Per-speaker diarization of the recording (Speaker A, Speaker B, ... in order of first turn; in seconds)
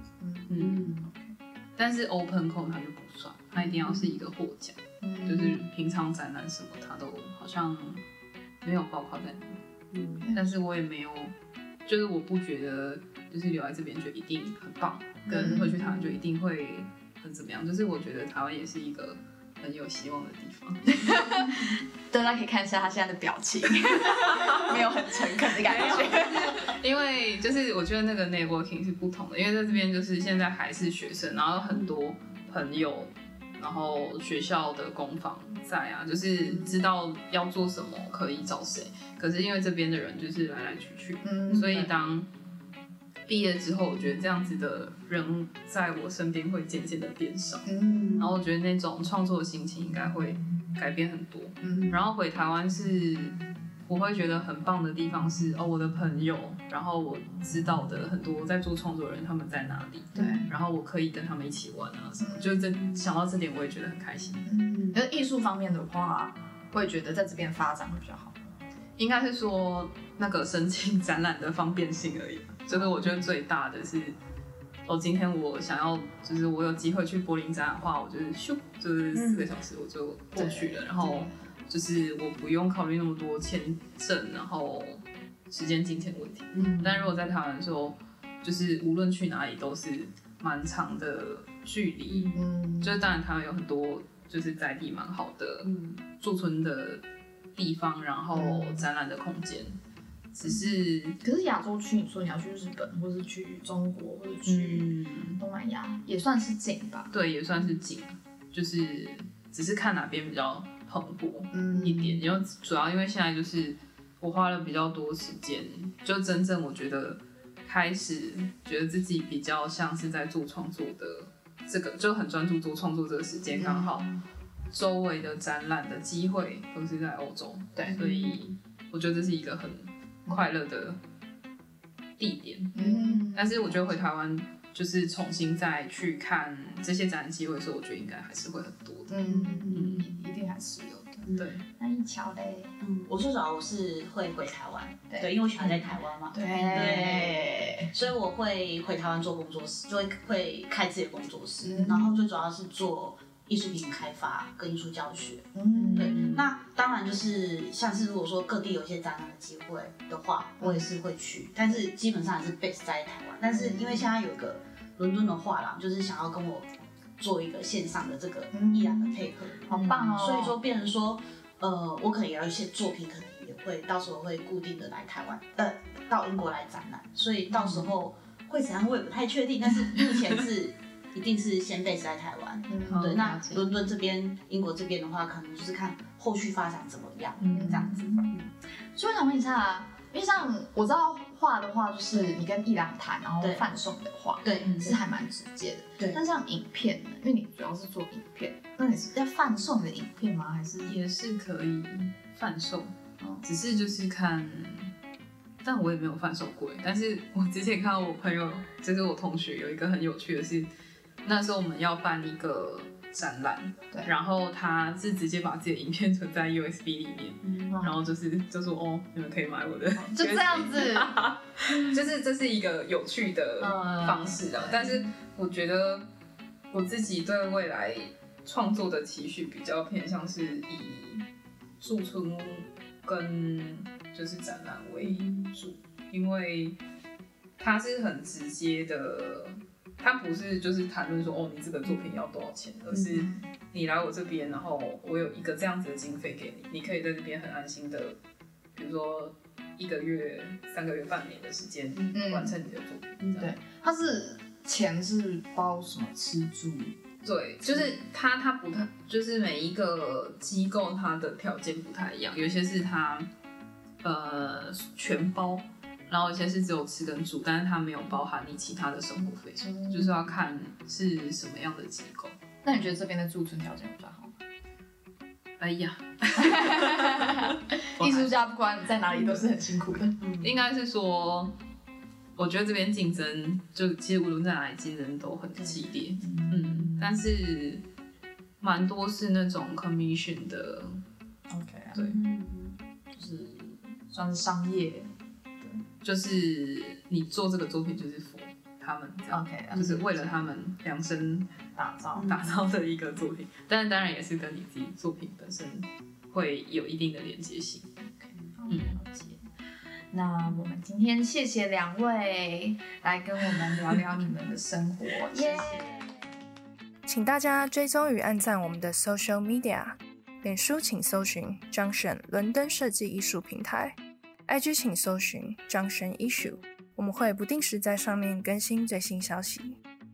Speaker A: 0.2-1.3, 5.0-5.7, 10.1-10.4, 15.3-15.8, 20.9-26.8, 41.2-41.9, 47.7-48.3, 51.6-52.0, 60.1-60.5, 62.2-62.7, 64.5-68.4, 80.3-81.3, 86.6-87.1, 92.3-93.1, 98.4-98.8, 101.2-107.1, 111.5-112.4, 123.6-124.2, 127.8-128.4, 132.8-133.8, 139.1-142.8, 145.1-147.9, 151.6-152.2, 155.6-156.4, 160.6-160.9, 163.5-164.1, 168.5-169.2, 169.7-170.6, 177.6-177.9, 182.7-183.9, 187.4-188.3, 188.9-201.0, 203.2-203.5, 217.7-218.0, 220.0-221.2, 223.6-225.0, 243.1-243.4, 252.1-252.6, 253.4-257.0, 269.6-270.3, 272.6-274.3, 276.4-280.2, 286.2-287.2, 291.5-292.1, 293.1-295.8, 299.3-300.4, 301.8-302.5, 308.0-309.4, 310.1-315.9
Speaker B: 0.5-0.9, 1.8-8.0, 8.6-9.6, 10.3-11.3, 11.9-21.1, 25.6-42.3, 43.3-64.5, 69.0-74.2, 74.9-97.0, 97.5-99.8, 100.3-101.2, 104.5-105.4, 107.1-124.1, 124.7-131.0, 132.2-140.2, 141.3-141.6, 194.6-194.9, 200.9-204.9, 205.6-210.7, 211.2-226.1, 226.7-231.3, 231.8-236.8, 237.6-248.2, 248.8-253.5, 257.2-263.3, 264.0-272.4, 275.6-277.4, 278.0-278.3, 280.4-281.6, 282.4-287.8, 288.6-291.0, 296.0-301.5, 302.1-307.9, 308.7-309.0
Speaker C: 0.6-0.9, 3.7-4.0, 9.9-10.3, 15.3-16.1, 41.5-41.9, 47.9-48.3, 64.7-65.0, 72.7-73.2, 79.1-79.5, 86.5-86.8, 92.1-92.4, 95.6-96.0, 98.4-98.7, 132.8-133.3, 139.3-140.1, 141.3-141.6, 142.8-188.5, 193.4-193.7, 194.4-194.9, 217.4-217.8, 235.0-235.5, 242.9-243.2, 280.2-280.5, 285.6-285.9, 292.1-292.8, 299.7-300.0, 302.1-302.5, 315.3-316.0
Speaker D: 317.1-324.0, 324.5-329.8